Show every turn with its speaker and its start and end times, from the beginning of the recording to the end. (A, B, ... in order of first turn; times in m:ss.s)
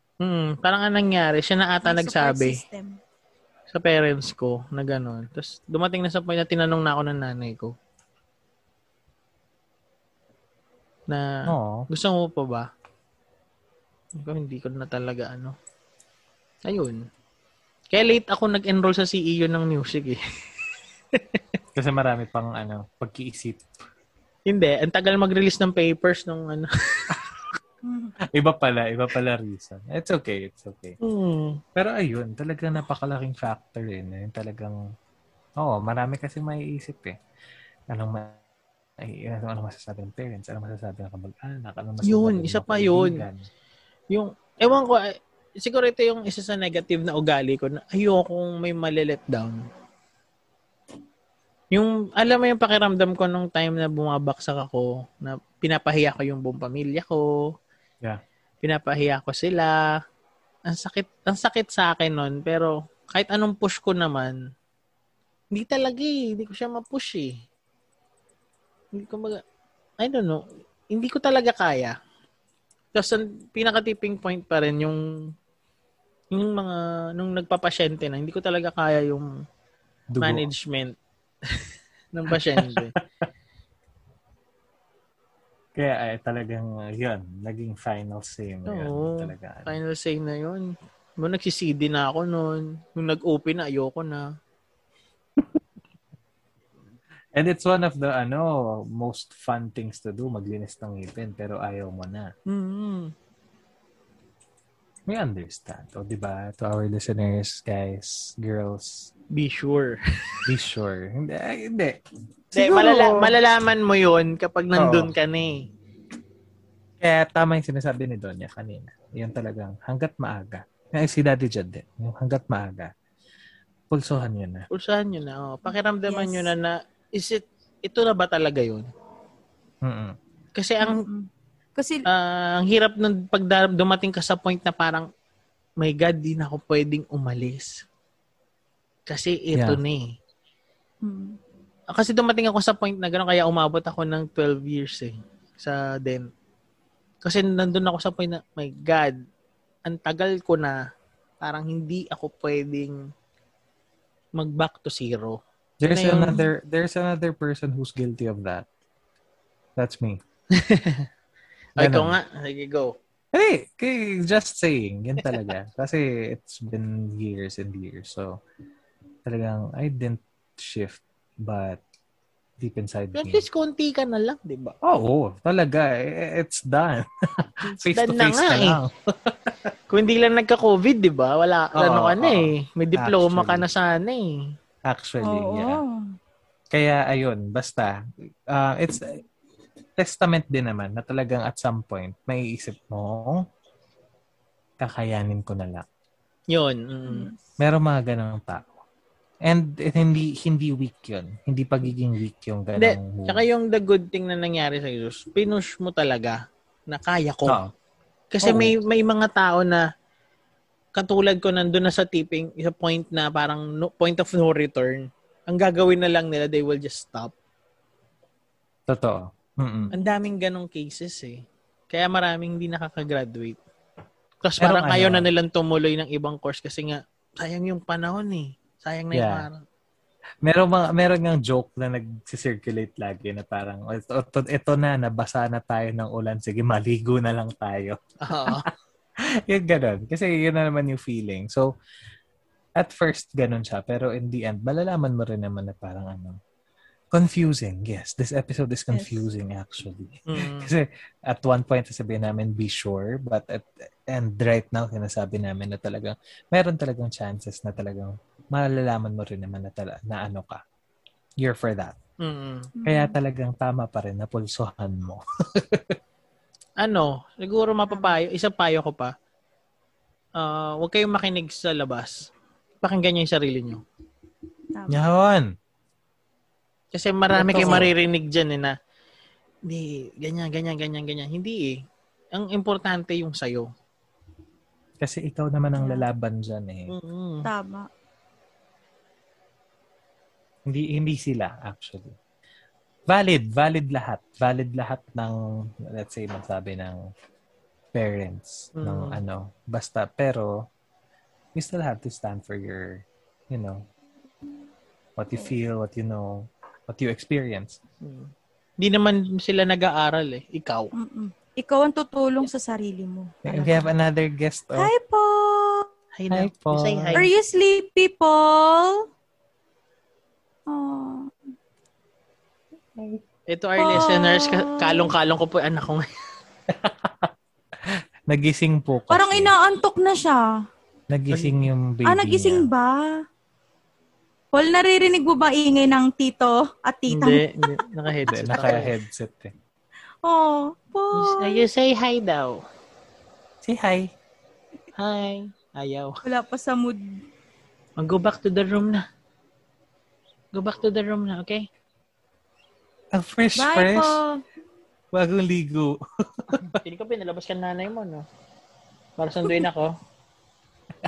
0:00.2-0:02.6 A
0:01.8-0:03.0 B
0:03.7-0:07.7 A
0:11.1-0:12.7 A
0:11.5-0:11.9 C
0:14.2-0:15.6 A
0:16.6-0:17.0 A
0:17.9-0:20.2 A
0:21.1-0:21.4 A
0:21.8-0:23.7 C
0:24.5-0:27.2 A
0:27.8-0:28.2 B
0:28.3-0:31.0 C
0:31.0-0:31.6 A
0:31.8-0:34.8 C
0:35.6-0:37.2 C
0:37.9-0:38.4 C
0:39.0-0:43.5 C
0:42.0-0:43.2 A
0:44.1-0:49.6 A
0:51.7-0:57.5 A
0:58.6-1:00.0 A
1:00.7-1:04.4 A
1:05.5-1:07.4 A
1:09.0-1:09.4 A
1:10.0-1:12.0 A
1:12.9-1:15.0 A
1:16.3-1:19.3 A
1:20.1-1:20.5 C
1:20.2-1:21.0 A
1:21.5-1:22.9 A
1:22.3-1:23.3 C
1:25.8-1:29.8 C
1:28.7-1:34.3 A
1:37.4-1:42.3 C
1:42.5-1:43.1 A
1:45.1-1:49.1 C
1:49.3-1:50.0 A
1:50.5-1:52.0 C
1:52.5-1:53.3 C
1:52.6-1:55.6 A
1:54.8-1:55.1 C
1:57.0-2:02.9 C
2:03.9-2:04.7 C
2:04.7-2:08.9 A
2:06.1-2:06.5 B
2:09.8-2:10.2 C
2:10.6-2:11.1 A
2:10.8-2:12.1 B
2:12.1-2:15.1 A
2:15.8-2:17.8 A
2:19.1-2:20.1 A
2:19.5-2:19.8 C
2:21.0-2:21.4 B
2:21.9-2:26.3 A
2:27.2-2:29.2 A
2:29.9-2:30.8 A
2:31.4-2:33.0 A
2:34.4-2:35.4 A
2:35.8-2:38.7 C
2:35.9-2:36.4 A
2:39.8-2:40.2 C
2:40.5-2:41.1 A
2:41.8-2:42.2 C
2:41.8-2:43.0 A
2:43.3-2:48.4 C
2:49.3-2:51.8 C
2:52.6-2:53.4 C
2:53.2-2:54.8 A
2:54.8-2:59.7 C
2:57.9-2:58.8 A
2:59.9-3:04.4 A
3:01.8-3:03.7 C
3:04.8-3:05.8 C
3:05.2-3:06.0 B
3:06.7-3:08.0 C
3:08.5-3:09.2 C
3:10.0-3:13.4 C
3:14.8-3:15.9 C
3:16.5-3:17.3 A
3:17.1-3:17.4 B
3:17.6-3:18.7 C
3:19.4-3:23.4 C
3:22.8-3:27.6 A
3:27.5-3:27.7 C
3:28.3-3:29.9 A
3:28.4-3:28.8 C
3:31.0-3:37.3 A
3:38.9-3:39.9 C
3:39.9-3:43.6 A
3:44.4-3:49.6 A
3:44.6-3:45.3 C
3:49.1-3:49.5 C
3:50.4-4:01.7 C
3:58.2-3:58.7 A
4:02.8-4:06.4 C
4:07.1-4:20.6 C
4:08.9-4:09.2 B
4:10.3-4:10.7 A
4:21.4-4:22.0 C
4:22.2-4:22.7 A
4:22.8-4:23.2 B
4:22.8-4:26.0 C
4:26.8-4:29.1 A
4:27.9-4:28.2 B
4:30.4-4:32.3 A
4:32.8-4:33.8 A
4:34.7-4:35.0 B
4:34.9-4:35.5 C
4:36.9-4:38.8 A
4:37.3-4:37.9 C
4:39.7-4:41.8 A
4:42.3-4:43.7 A
4:45.0-4:46.9 C
4:45.8-4:46.1 B
4:46.9-4:47.5 A
4:47.4-4:47.9 B
4:50.7-4:52.2 C
4:53.1-4:57.0 C
4:57.9-5:00.7 C
4:58.8-4:59.2 A
5:01.6-5:03.9 C
5:05.2-5:07.8 C
5:08.0-5:10.9 A
5:11.0-5:13.9 B
5:13.4-5:14.9 C
5:14.8-5:15.9 B
5:16.2-5:17.3 A
5:16.3-5:17.2 C
5:17.2-5:19.1 B
5:20.7-5:21.3 B
5:23.0-5:23.2 C
5:23.5-5:26.1 A
5:23.8-5:25.1 B
5:26.7-5:27.3 C
5:27.9-5:29.5 C
5:29.1-5:30.4 B
5:31.1-5:32.7 C
5:31.3-5:31.6 A
5:32.1-5:33.1 B
5:34.5-5:37.7 B
5:37.1-5:38.9 A
5:38.3-5:39.5 C
5:40.2-5:41.6 B
5:41.1-5:42.6 A
5:43.6-5:44.1 C
5:45.0-5:46.2 A
5:46.2-5:47.0 B
5:48.0-5:49.0 A
5:50.5-5:51.7 A
5:53.1-5:54.2 C
5:53.6-5:54.4 B
5:55.1-5:56.8 C
5:56.8-5:58.2 A
5:59.2-6:00.0 A